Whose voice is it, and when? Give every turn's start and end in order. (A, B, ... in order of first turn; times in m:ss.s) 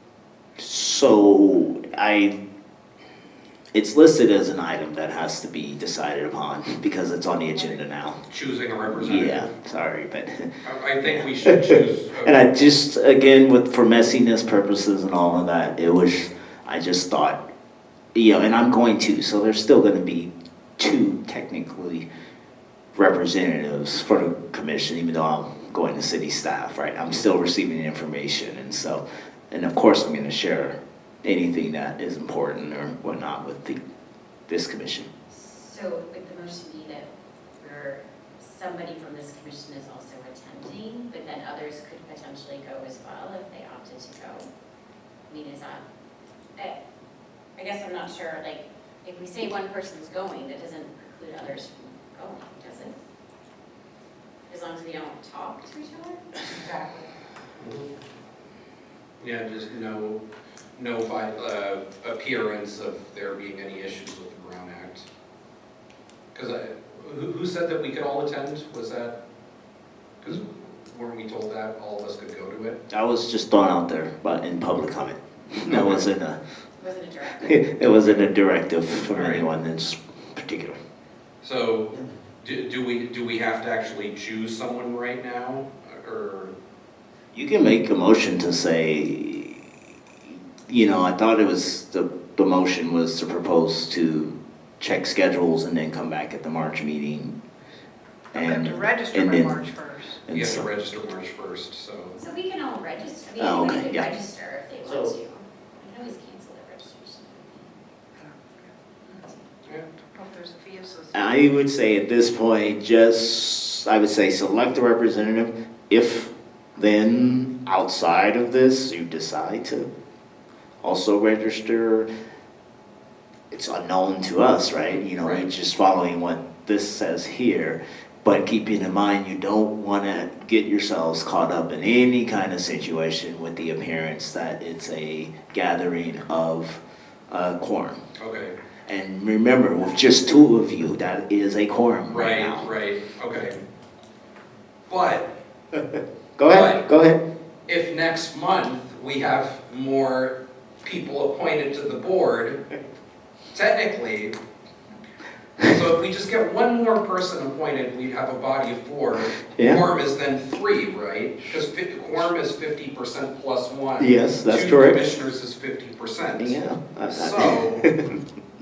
0:00.6-0:02.4 A
0:03.7-0:08.2 A
0:08.3-0:09.5 B
0:08.9-0:17.4 A
0:10.6-0:12.4 B
0:18.2-0:22.1 A
0:23.0-0:33.8 A
0:34.5-0:35.1 A
0:35.3-0:44.5 C
0:45.3-0:45.8 C
0:47.6-0:53.0 C
0:54.5-0:57.1 C
0:57.6-0:57.9 B
0:59.2-1:00.2 B
1:00.8-1:05.1 B
1:06.3-1:09.2 B
1:10.2-1:12.8 B
1:12.9-1:16.4 A
1:15.7-1:16.1 B
1:16.8-1:17.7 C
1:17.4-1:20.8 A
1:18.0-1:18.3 B
1:19.0-1:19.5 B
1:21.4-1:26.5 B
1:27.3-1:29.7 A
1:30.7-1:37.4 A
1:38.3-1:39.6 A
1:38.3-1:40.2 D
1:40.3-1:40.7 A
1:40.3-1:42.2 B
1:42.2-1:47.7 C
1:43.4-1:44.2 A
1:44.9-1:45.1 A
1:48.2-1:48.4 D
1:49.0-1:49.4 C
1:50.2-1:51.1 D
1:51.1-1:59.9 A
2:00.8-2:02.1 A
2:03.5-2:18.0 A
2:05.2-2:05.4 B
2:18.2-2:18.6 B
2:18.9-2:22.7 A
2:22.1-2:23.6 B
2:24.9-2:25.3 B
2:25.7-2:27.2 A
2:26.5-2:26.8 B
2:27.7-2:32.6 B
2:33.5-2:34.4 B
2:35.6-2:47.8 B
2:39.6-2:39.8 A
2:44.0-2:45.2 A
2:46.4-2:48.2 A